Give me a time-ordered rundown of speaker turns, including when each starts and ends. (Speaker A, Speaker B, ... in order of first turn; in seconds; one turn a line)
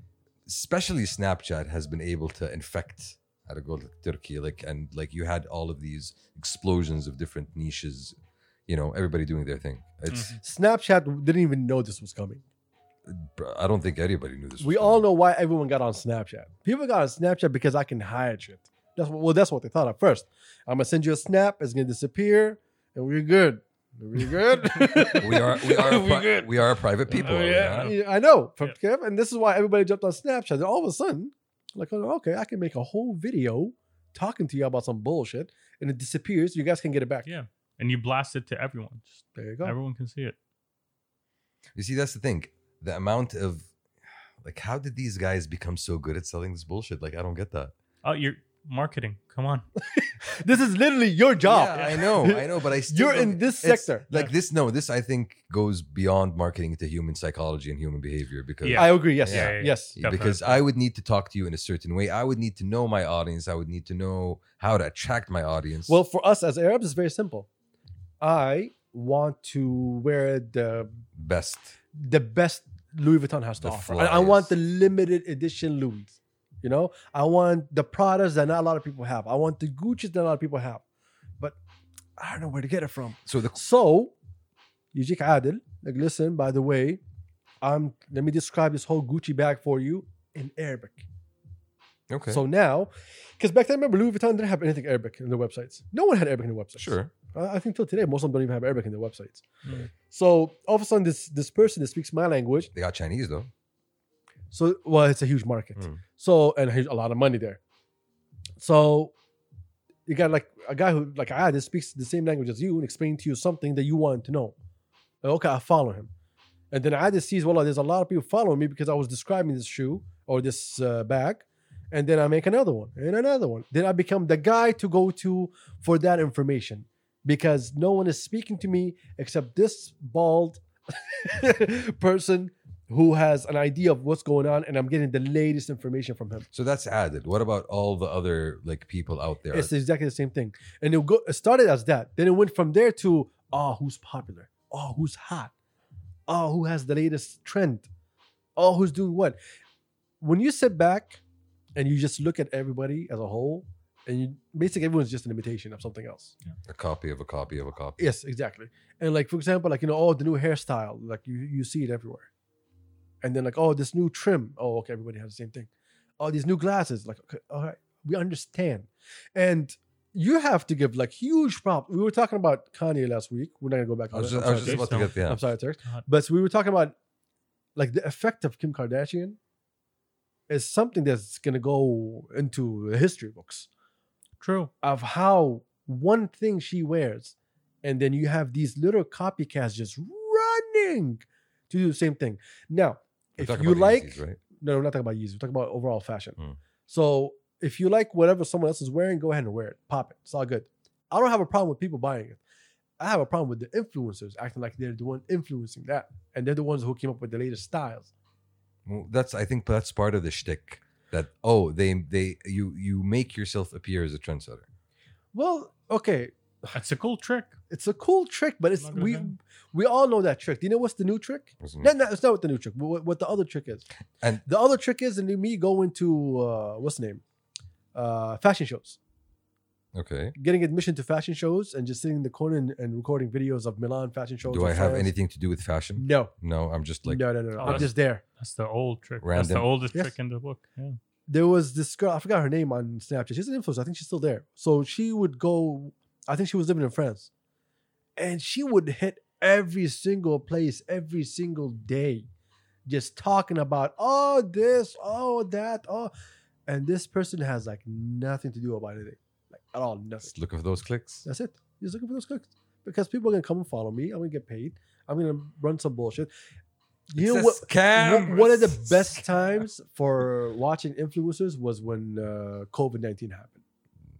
Speaker A: 0.5-8.1
Speaker A: 8.7-10.4
Speaker B: 10.1-10.4
Speaker C: 10.4-12.4
Speaker A: 13.1-15.0
Speaker C: 14.6-26.5
Speaker A: 25.1-27.9
Speaker C: 27.1-37.2
Speaker B: 27.6-27.9
Speaker B: 37.2-40.4
Speaker C: 39.4-39.8
Speaker A: 41.8-43.7
Speaker A: 44.4-47.7
Speaker B: 48.0-49.6
Speaker C: 49.9-54.1
Speaker A: 51.4-66.0
Speaker B: 58.6-60.6
Speaker C: 58.7-60.0
Speaker C: 65.9-67.5
Speaker C: 68.2-71.0
Speaker A: 71.2-71.8
Speaker C: 71.9-80.8
Speaker A: 73.6-74.5
Speaker C: 82.2-84.1
Speaker A: 83.2-83.6
Speaker C: 84.9-87.0
Speaker C: 87.6-91.1
Speaker A: 92.1-92.4
Speaker C: 92.3-102.7
Speaker A: 96.8-97.1
Speaker B: 99.6-99.9
Speaker A: 102.7-103.5
Speaker C: 104.5-107.6
Speaker A: 105.8-106.0
Speaker C: 108.6-109.1
Speaker C: 110.1-114.5
Speaker C: 115.2-116.1
Speaker C: 116.7-136.5
Speaker A: 136.5-139.7
Speaker C: 139.5-145.5
Speaker C: 146.3-147.9
Speaker C: 148.6-149.4
Speaker C: 150.2-151.2
Speaker C: 151.8-156.3
Speaker A: 156.7-158.0
Speaker C: 158.0-162.3
Speaker C: 163.2-176.9
Speaker A: 174.1-175.4
Speaker B: 174.6-175.1
Speaker C: 177.8-179.4
Speaker C: 180.5-183.7
Speaker B: 184.4-184.7
Speaker C: 184.8-202.4
Speaker A: 193.4-194.4
Speaker C: 203.0-208.1
Speaker A: 208.8-214.7
Speaker C: 215.3-216.8
Speaker B: 216.7-217.6
Speaker C: 217.7-223.8
Speaker B: 218.8-219.3
Speaker A: 221.6-221.9
Speaker C: 224.4-227.2
Speaker C: 227.9-229.0
Speaker A: 229.9-230.3
Speaker C: 230.3-235.1
Speaker A: 234.4-237.9
Speaker C: 236.0-236.3
Speaker C: 237.0-238.2
Speaker B: 237.6-241.0
Speaker A: 239.2-239.7
Speaker C: 241.3-247.3
Speaker C: 248.2-252.3
Speaker C: 252.8-256.1
Speaker C: 256.7-260.3
Speaker A: 260.3-261.2
Speaker C: 261.2-266.3
Speaker C: 267.1-273.6
Speaker A: 267.1-269.2